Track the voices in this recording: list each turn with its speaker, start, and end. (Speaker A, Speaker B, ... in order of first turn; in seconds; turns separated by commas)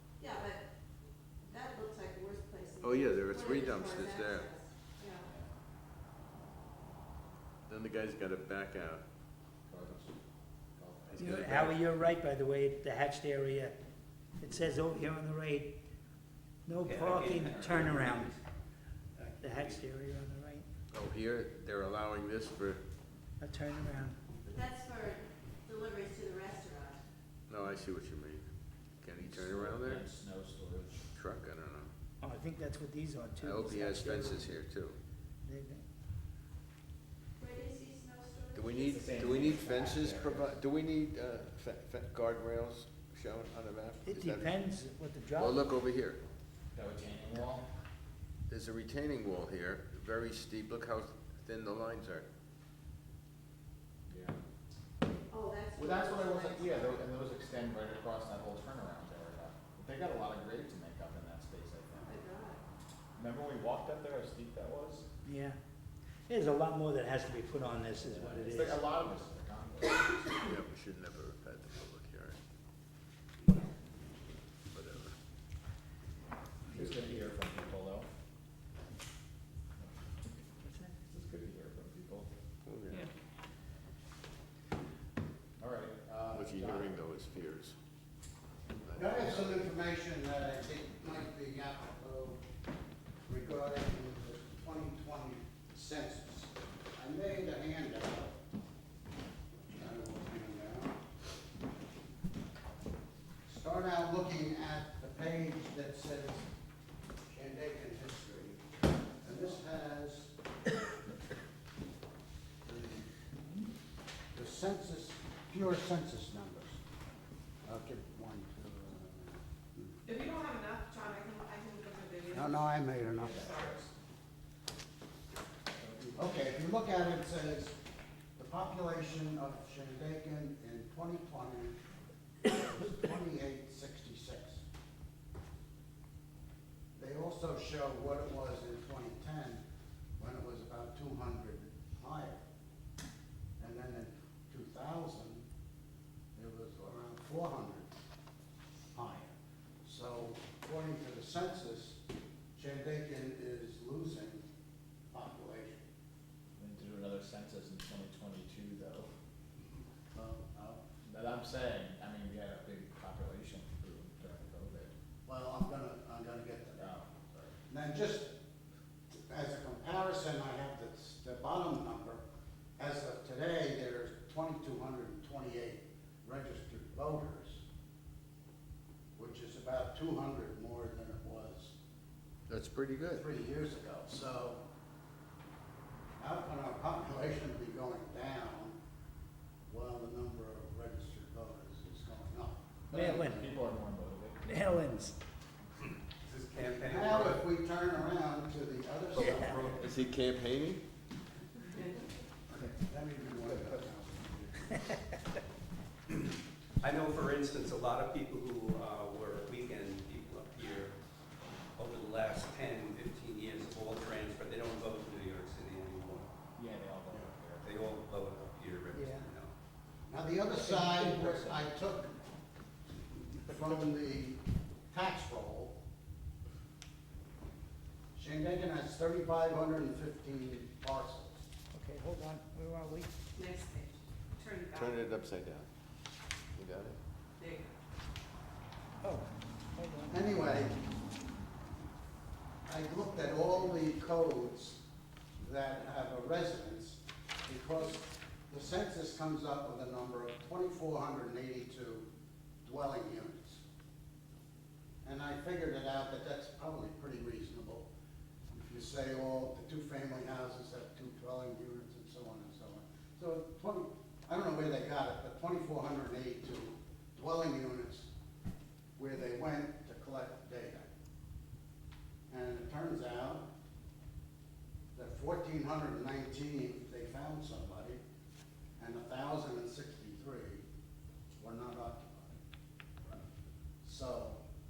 Speaker A: 0.2-0.7, Speaker A: 1.4-5.3, Speaker B: 2.8-4.5, Speaker C: 5.2-5.5, Speaker B: 7.7-9.0, Speaker C: 9.7-10.2, Speaker C: 10.8-11.5, Speaker B: 11.1-11.9, Speaker D: 11.2-13.7, Speaker D: 14.4-15.7, Speaker D: 16.7-18.3, Speaker E: 16.8-18.4, Speaker E: 19.2-19.8, Speaker D: 19.4-20.7, Speaker B: 20.9-22.8, Speaker D: 23.4-24.2, Speaker A: 24.4-27.0, Speaker B: 27.5-28.4, Speaker B: 29.0-30.1, Speaker C: 29.3-31.1, Speaker B: 31.1-31.9, Speaker D: 32.2-34.4, Speaker B: 33.4-35.0, Speaker D: 35.5-35.8, Speaker A: 37.4-39.1, Speaker B: 38.5-44.6, Speaker C: 38.9-40.5, Speaker D: 44.0-45.6, Speaker B: 45.4-46.2, Speaker C: 46.7-47.7, Speaker B: 48.5-52.3, Speaker C: 54.1-54.4, Speaker A: 55.3-57.0, Speaker C: 55.8-62.1, Speaker A: 62.0-62.6, Speaker C: 63.2-65.1, Speaker D: 65.2-65.6, Speaker D: 66.3-68.8, Speaker C: 68.0-70.3, Speaker B: 70.4-72.4, Speaker B: 74.7-75.1, Speaker C: 76.7-78.1, Speaker D: 80.6-80.9, Speaker C: 81.1-82.3, Speaker B: 82.6-83.1, Speaker C: 85.6-86.9, Speaker B: 86.3-87.8, Speaker B: 88.8-89.7, Speaker F: 88.9-92.4, Speaker F: 93.3-98.3, Speaker F: 99.8-101.0, Speaker F: 103.5-106.5, Speaker F: 107.3-108.6, Speaker F: 109.2-110.3, Speaker F: 112.7-113.1, Speaker F: 114.3-116.8, Speaker F: 117.6-120.0, Speaker G: 120.1-122.5, Speaker F: 122.3-123.7, Speaker G: 123.5-123.8, Speaker C: 125.8-126.4, Speaker F: 126.1-127.8, Speaker F: 128.4-131.8, Speaker F: 132.4-134.6, Speaker F: 136.9-139.6, Speaker F: 140.2-142.4, Speaker F: 143.6-145.4, Speaker F: 146.3-147.9, Speaker F: 148.9-149.3, Speaker F: 149.8-152.0, Speaker F: 152.5-154.4, Speaker F: 155.1-155.8, Speaker C: 156.6-159.1, Speaker F: 160.1-160.8, Speaker C: 161.0-164.9, Speaker F: 165.2-166.9, Speaker C: 166.8-167.5, Speaker F: 167.7-168.3, Speaker F: 169.3-172.2, Speaker F: 172.8-177.6, Speaker F: 179.2-181.8, Speaker B: 182.5-183.2, Speaker F: 183.1-184.6, Speaker F: 186.2-188.8, Speaker F: 189.7-193.5, Speaker D: 192.9-193.4, Speaker C: 193.2-194.4, Speaker D: 194.4-195.2, Speaker E: 196.2-197.4, Speaker F: 196.8-199.9, Speaker B: 199.2-200.8, Speaker F: 202.8-204.8, Speaker E: 206.8-210.9, Speaker E: 211.8-216.3, Speaker C: 216.6-217.8, Speaker E: 217.6-219.5, Speaker D: 218.9-219.3, Speaker F: 220.1-222.1, Speaker C: 220.7-221.5, Speaker F: 223.4-224.4, Speaker F: 224.9-225.7, Speaker F: 228.1-231.4, Speaker D: 231.7-233.1, Speaker G: 233.3-234.8, Speaker B: 234.7-235.7, Speaker B: 236.6-237.0, Speaker G: 237.4-237.7, Speaker D: 239.0-240.2, Speaker F: 240.1-240.8, Speaker F: 242.7-244.8, Speaker F: 245.4-252.1, Speaker F: 252.6-253.6, Speaker F: 255.0-257.9, Speaker F: 258.5-268.1, Speaker F: 269.0-270.9, Speaker F: 272.3-273.5, Speaker F: 274.9-278.0, Speaker F: 278.8-280.6, Speaker F: 281.4-282.4, Speaker F: 283.8-284.4